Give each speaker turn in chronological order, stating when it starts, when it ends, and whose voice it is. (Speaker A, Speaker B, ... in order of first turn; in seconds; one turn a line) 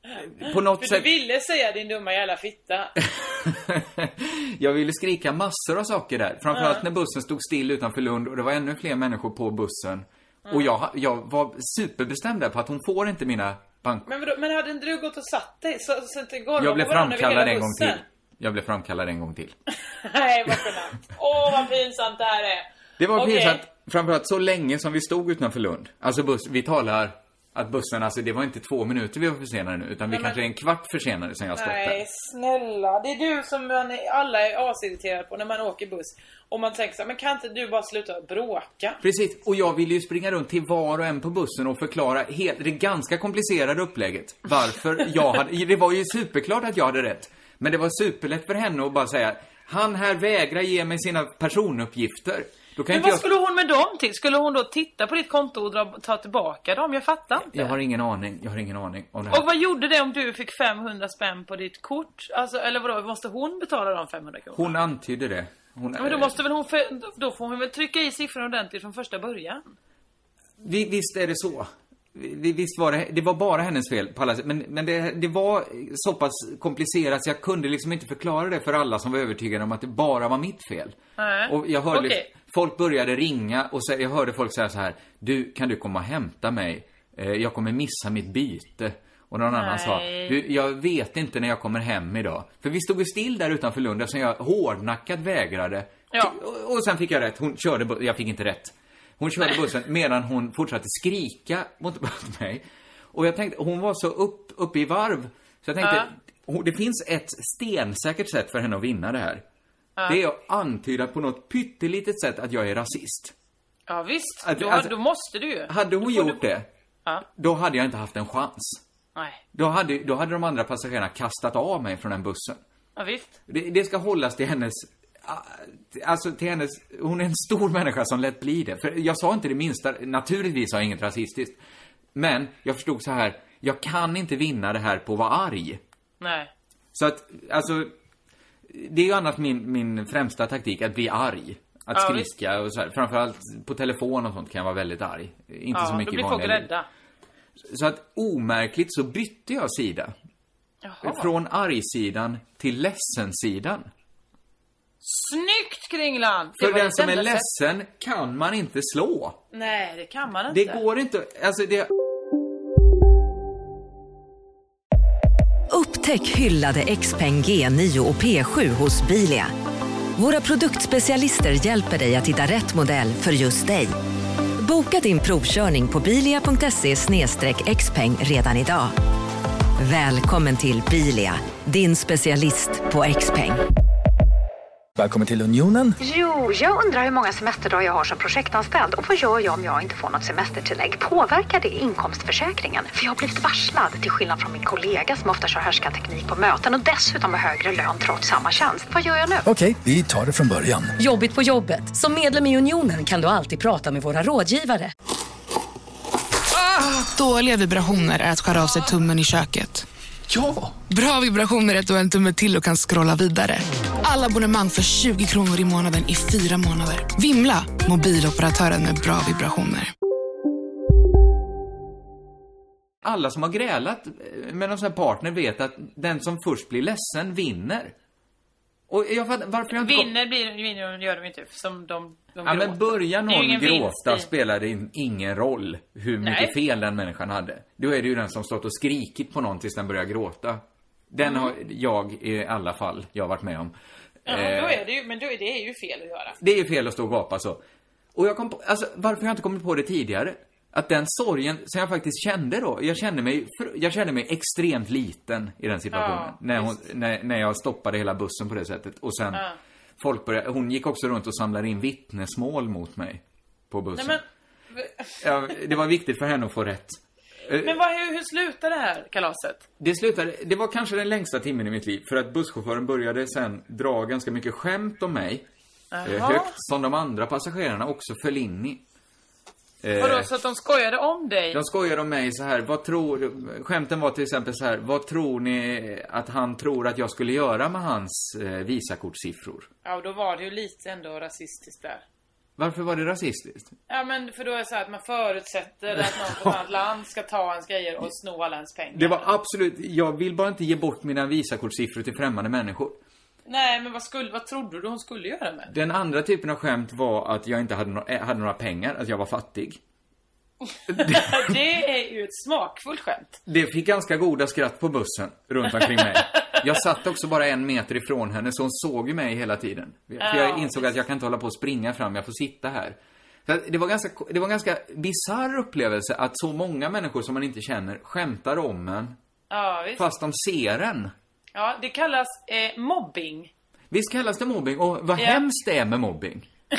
Speaker A: 0.2-1.1
Speaker B: 0.8-2.9
Speaker A: 3.1-14.1
Speaker B: 6.5-6.8
Speaker B: 14.1-18.0
Speaker A: 16.6-19.6
Speaker B: 19.8-23.6
Speaker A: 23.0-32.0
Speaker B: 30.1-30.4
Speaker B: 31.5-39.0
Speaker A: 39.0-53.2
Speaker B: 52.9-57.7
Speaker A: 57.4-59.5
Speaker B: 59.3-64.8
Speaker A: 64.5-66.4
Speaker B: 66.0-69.6
Speaker A: 70.6-109.4
Speaker B: 81.2-82.3
Speaker B: 89.5-90.4
Speaker B: 105.8-106.1
Speaker A: 110.1-113.3
Speaker B: 113.9-116.4
Speaker A: 114.4-115.0
Speaker A: 115.7-116.7
Speaker A: 117.3-118.8
Speaker A: 119.5-122.6
Speaker B: 123.0-123.3
Speaker A: 123.5-131.6
Speaker A: 132.1-135.8
Speaker B: 136.2-136.5
Speaker A: 136.9-137.9
Speaker A: 138.7-146.7
Speaker B: 141.9-142.3
Speaker B: 145.7-146.9
Speaker A: 147.6-150.1
Speaker B: 150.8-151.3
Speaker A: 151.0-153.9
Speaker B: 155.0-157.4
Speaker A: 156.6-159.4
Speaker B: 159.5-160.8
Speaker A: 160.5-161.9
Speaker C: 165.7-169.5
Speaker C: 170.2-173.9
Speaker C: 174.6-178.9
Speaker C: 179.8-183.6
Speaker D: 185.0-185.9
Speaker E: 186.0-199.4
Speaker D: 199.4-200.9
Speaker F: 201.0-204.9
Speaker G: 206.5-209.8
Speaker D: 210.3-210.7
Speaker G: 210.9-219.9
Speaker A: 223.0-227.9
Speaker A: 228.9-230.1
Speaker B: 229.7-234.3
Speaker A: 232.4-243.7
Speaker B: 236.2-236.5
Speaker B: 241.2-241.5
Speaker A: 244.2-244.8
Speaker B: 244.3-246.4
Speaker A: 246.4-247.6
Speaker A: 248.1-259.4
Speaker B: 255.9-256.8
Speaker A: 260.0-264.2
Speaker B: 263.9-264.2
Speaker B: 264.7-265.2
Speaker A: 265.2-267.8
Speaker B: 267.6-269.6
Speaker A: 269.8-275.4
Speaker B: 275.9-276.5
Speaker A: 276.0-278.8
Speaker A: 279.8-280.3
Speaker B: 280.0-281.6
Speaker A: 281.5-289.7
Speaker B: 289.8-292.0
Speaker A: 292.6-293.7
Speaker B: 293.9-299.2
Speaker A: 295.9-296.6
Speaker A: 298.9-303.0
Speaker B: 303.4-305.7
Speaker A: 305.7-309.8
Speaker B: 310.7-313.4
Speaker A: 310.9-311.6
Speaker A: 313.4-329.1
Speaker B: 320.2-320.9
Speaker B: 329.5-330.0
Speaker A: 329.9-331.1
Speaker B: 331.5-333.5
Speaker A: 333.9-336.5
Speaker B: 335.2-335.4